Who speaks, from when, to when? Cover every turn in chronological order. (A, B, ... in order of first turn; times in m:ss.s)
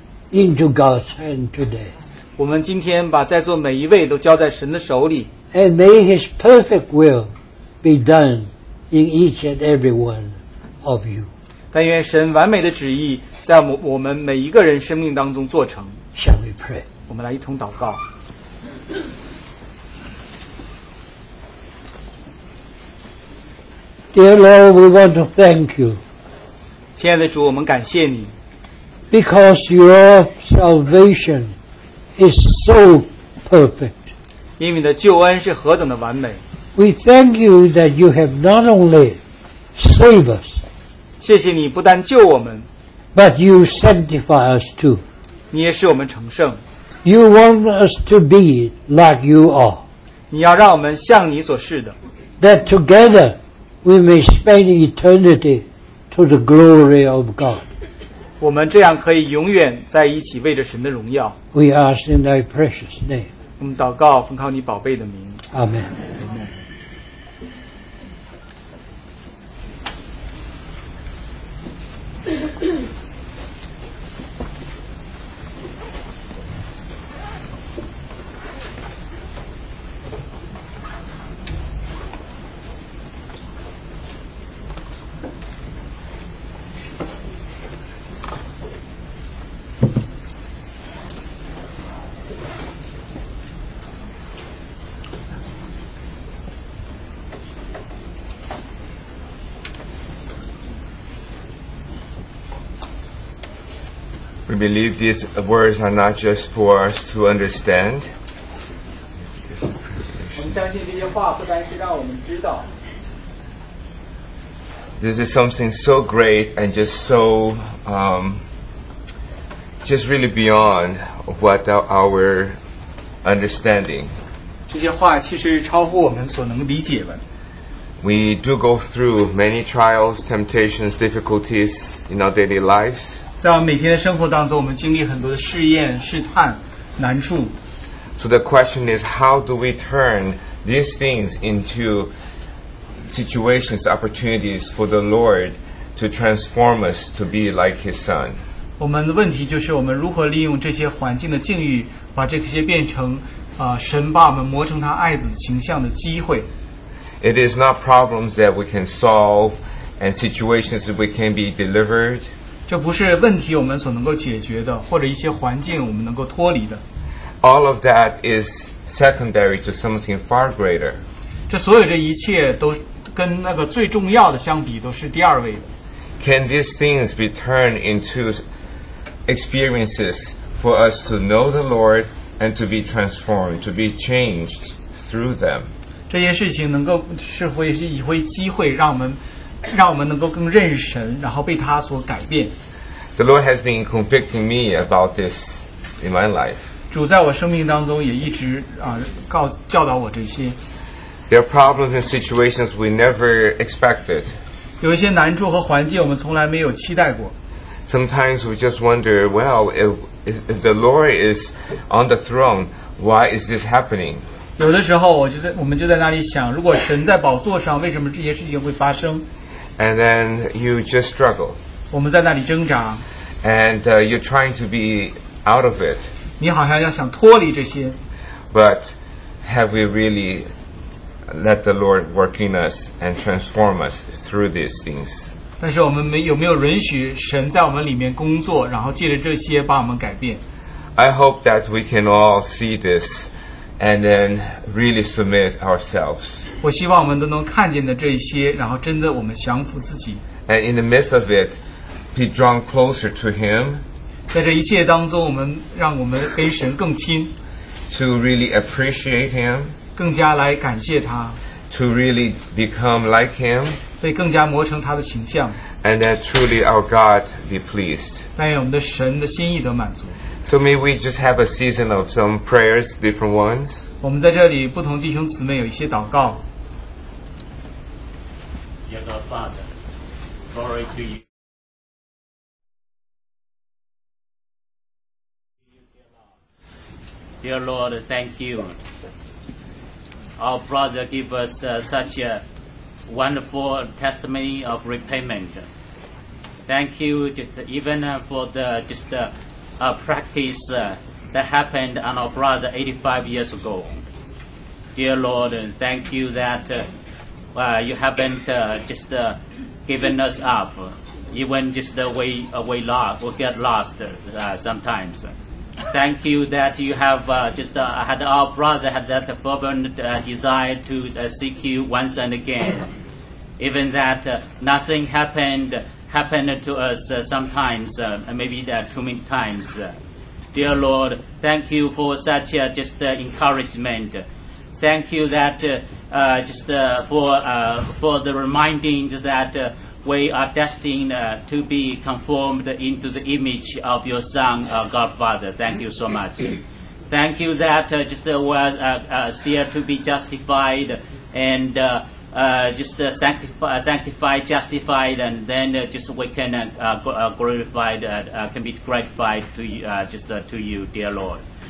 0:00.3-0:01.9 A
0:02.4-0:05.3 B
0:05.5-0:11.3 A
0:11.7-0:16.0 B
0:16.1-0:16.8 A
0:17.1-0:18.0 B
0:24.1-0:26.0 A
0:27.0-0:28.3 B
0:29.1-0:31.5 A
0:32.2-0:34.1 A
0:34.6-0:36.4 B
0:36.8-0:39.2 A
0:39.8-0:40.6 A
0:41.2-0:42.7 B
0:43.1-0:45.0 A
0:45.5-0:46.6 B
0:47.0-0:49.8 A
0:50.3-0:52.0 B
0:52.4-0:57.6 A
0:58.4-1:01.4 B
1:01.5-1:03.3 A
1:03.6-1:05.4 B
1:05.5-1:05.9 A
1:06.2-1:06.5 B
1:44.5-1:48.1 C
1:49.5-1:50.3 C
1:50.4-1:52.7 B
1:55.0-1:58.4 C
1:59.8-2:02.6 C
2:03.2-2:04.1 C
2:04.7-2:07.2 B
2:08.0-2:13.2 C
2:13.4-2:17.6 B
2:18.2-2:22.1 C
2:23.1-2:28.4 C
2:28.8-2:36.5 B
2:37.2-2:42.3 C
2:42.7-2:46.8 B
2:47.4-2:51.0 C
2:51.5-2:55.7 B
2:56.2-2:58.4 C
2:59.3-3:05.7 C
3:06.1-3:12.5 B
3:13.2-3:16.6 C
3:16.9-3:20.6 B
3:21.3-3:24.3 C
3:24.8-3:27.3 B
3:27.8-3:34.2 C
3:34.6-3:39.3 B
3:39.8-3:41.6 C
3:41.9-3:43.0 B
3:43.4-3:46.1 C
3:46.4-3:48.0 B
3:48.5-3:50.5 C
3:51.3-3:55.3 C
3:55.6-4:00.4 B
4:01.0-4:06.4 C
4:06.6-4:10.2 B
4:10.4-4:11.6 C
4:12.1-4:13.8 C
4:14.3-4:17.3 B
4:17.9-4:19.8 C
4:20.0-4:21.4 B
4:21.7-4:23.8 C
4:24.0-4:25.6 B
4:25.8-4:28.2 C
4:28.4-4:30.2 B
4:30.4-4:33.8 C
4:34.0-4:36.4 B
4:38.8-4:39.7 D
4:40.5-4:41.2 D
4:47.4-4:48.8 D
4:50.4-4:52.4 D
4:53.1-4:55.7 D
4:56.7-5:04.0 D
5:04.9-5:06.9 D
5:07.5-5:15.3 D
5:15.9-5:22.9 D
5:23.6-5:30.0 D
5:30.5-6:01.4 D